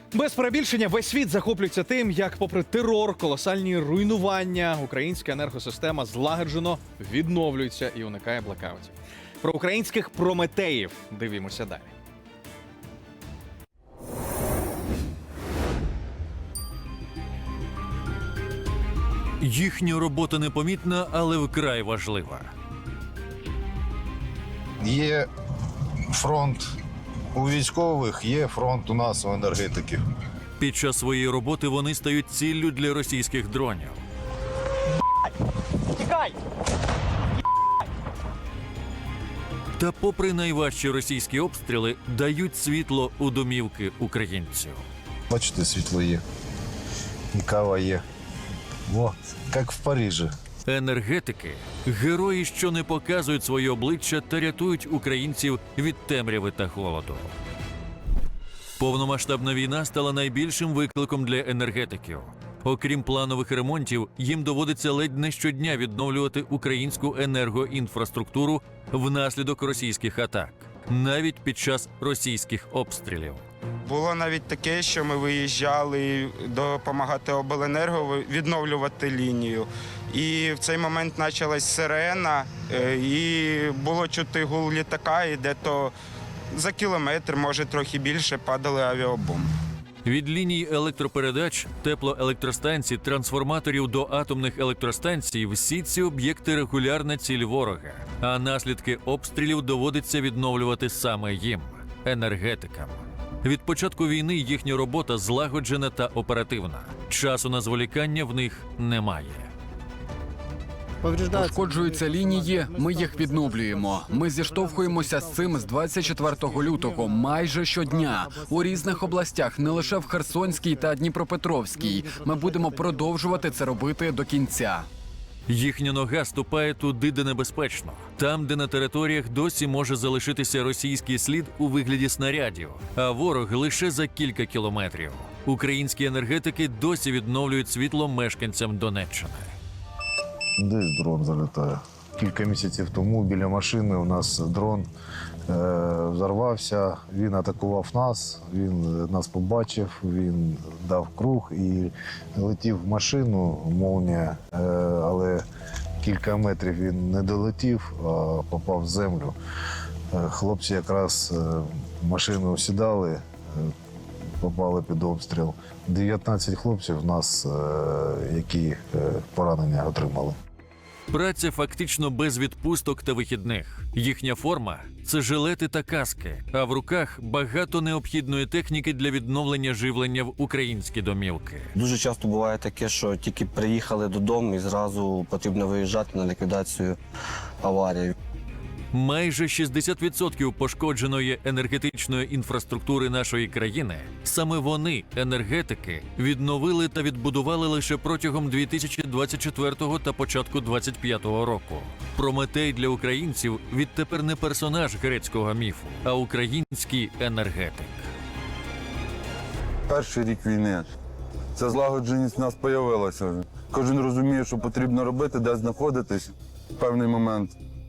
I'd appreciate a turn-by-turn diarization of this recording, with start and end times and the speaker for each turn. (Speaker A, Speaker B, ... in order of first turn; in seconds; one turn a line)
Speaker A: 0.1-11.9
Speaker B: 19.4-22.5
Speaker C: 24.8-25.3
Speaker C: 26.1-26.6
Speaker C: 27.3-30.0
Speaker B: 30.6-34.0
Speaker B: 39.8-44.8
Speaker C: 45.3-46.2
Speaker C: 47.3-48.0
Speaker C: 48.9-50.3
Speaker B: 50.7-57.3
Speaker B: 58.8-73.4
Speaker D: 73.8-85.9
Speaker D: 86.5-89.5
Speaker B: 90.0-109.5
Speaker E: 111.1-124.9
Speaker B: 125.5-139.5
Speaker C: 140.6-144.9
Speaker C: 145.5-155.4
Speaker C: 156.0-159.3
Speaker C: 160.1-163.7
Speaker C: 164.4-170.4
Speaker B: 171.1-181.7
Speaker F: 181.8-187.0
Speaker F: 187.6-188.1
Speaker B: 188.9-208.1
Speaker G: 209.9-210.9
Speaker G: 211.6-217.6